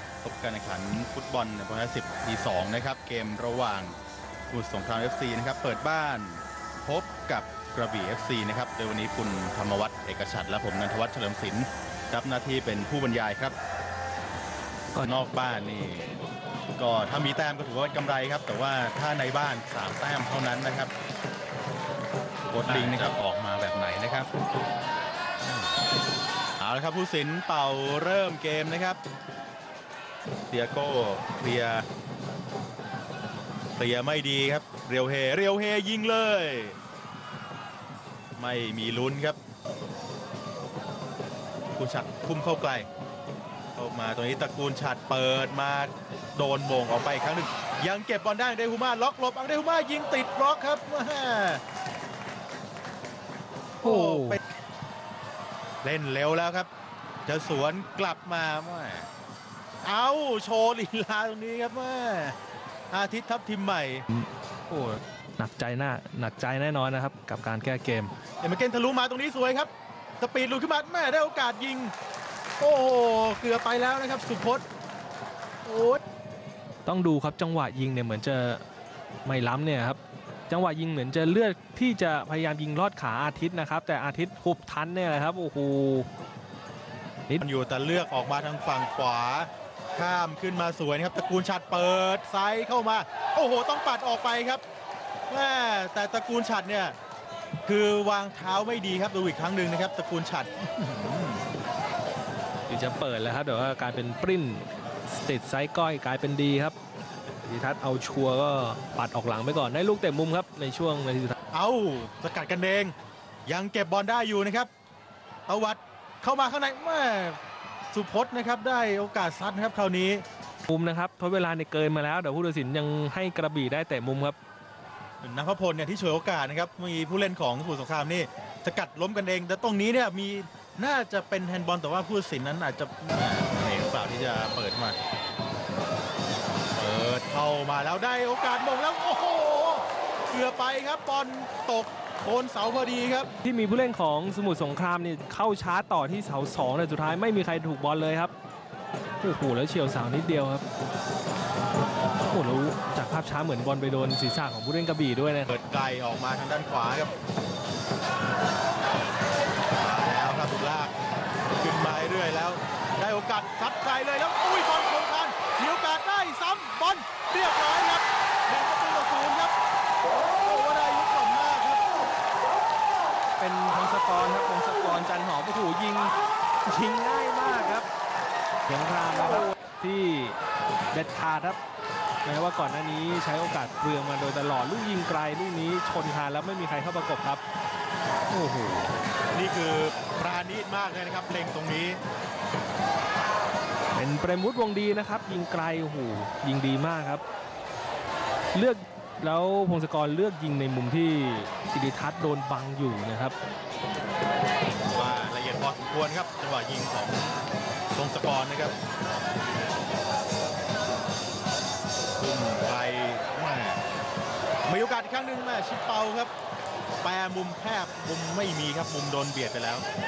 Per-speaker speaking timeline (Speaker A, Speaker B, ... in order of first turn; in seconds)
Speaker A: 0.2-4.0, 4.5-13.6, 15.0-16.2, 16.8-20.9, 22.5-24.3, 25.4-25.7, 26.6-29.0, 30.5-31.9, 33.8-36.8, 38.4-39.4, 41.8-42.9, 43.8-51.6, 53.8-54.4, 55.8-56.7, 57.3-59.1, 59.8-62.4, 62.9-64.0, 68.4-71.9, 72.6-74.6, 75.7-76.0, 87.4-94.6, 95.3-97.0, 97.7-101.4, 111.5-112.9, 113.5-114.7, 115.5-117.4, 117.9-120.2, 125.2-135.0, 136.8-143.3, 155.5-157.1, 159.8-160.9, 161.6-169.6, 170.4-171.9, 189.3-192.0, 204.9-207.3, 208.0-208.7, 212.2-213.8, 214.7-216.3, 217.0-219.8
Speaker B: 22.6-23.1, 53.8-54.4, 64.1-68.1, 76.9-78.6, 79.2-86.1, 102.7-106.8, 107.4-111.4, 120.7-124.4, 143.4-148.3, 149.2-150.6, 152.2-155.5, 173.4-177.9, 178.7-180.4, 180.9-181.6, 182.2-187.4, 188.3-188.9, 193.9-197.2, 198.5-203.4